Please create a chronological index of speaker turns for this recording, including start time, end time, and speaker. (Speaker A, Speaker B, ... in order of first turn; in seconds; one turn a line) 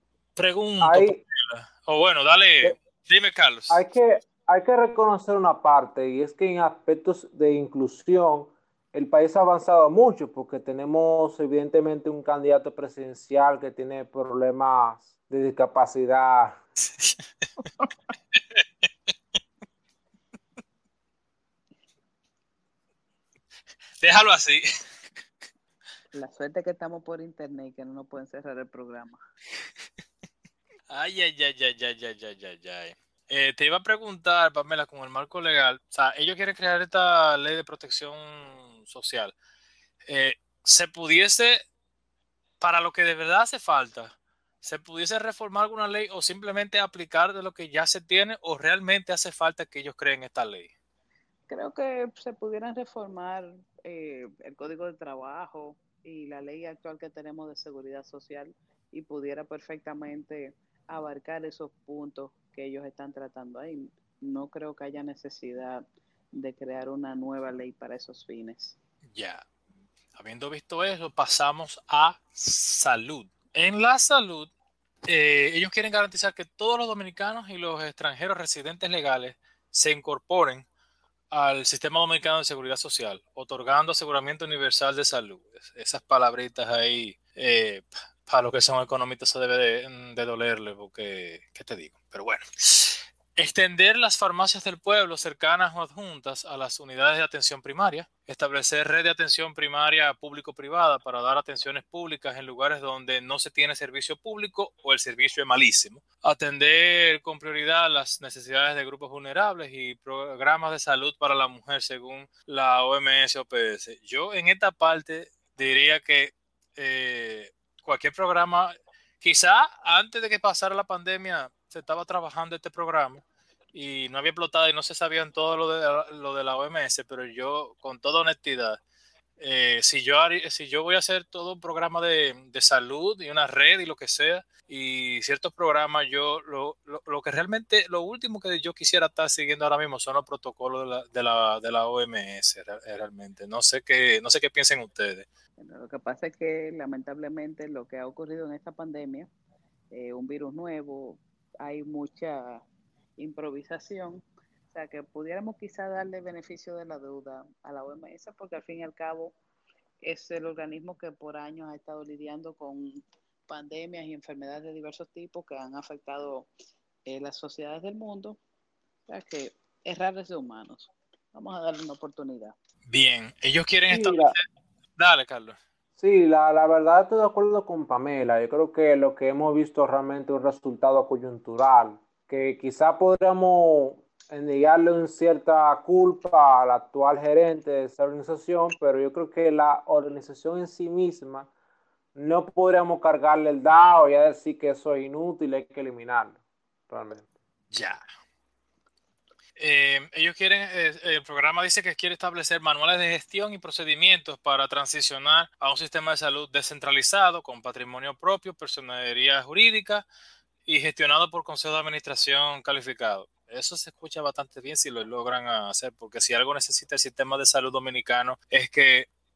Speaker A: 0.4-3.9
Speaker B: 0.8-1.2
Speaker B: 3.7-16.6
Speaker A: 24.0-24.6
Speaker C: 26.1-29.2
Speaker A: 30.9-39.3
Speaker A: 40.0-41.6
Speaker A: 42.6-50.7
Speaker C: 51.5-68.8
Speaker A: 69.1-69.4
Speaker A: 70.1-74.5
Speaker A: 75.0-80.7
Speaker A: 81.3-128.8
Speaker A: 129.4-145.3
Speaker C: 145.6-149.3
Speaker C: 149.9-152.6
Speaker C: 153.2-159.3
Speaker C: 160.0-166.5
Speaker C: 167.1-168.4
Speaker C: 169.1-172.5
Speaker A: 172.9-174.4
Speaker B: 173.9-174.3
Speaker A: 175.0-175.6
Speaker B: 176.0-191.5
Speaker B: 192.1-197.3
Speaker A: 197.7-198.0
Speaker A: 199.6-210.1
Speaker A: 210.7-219.1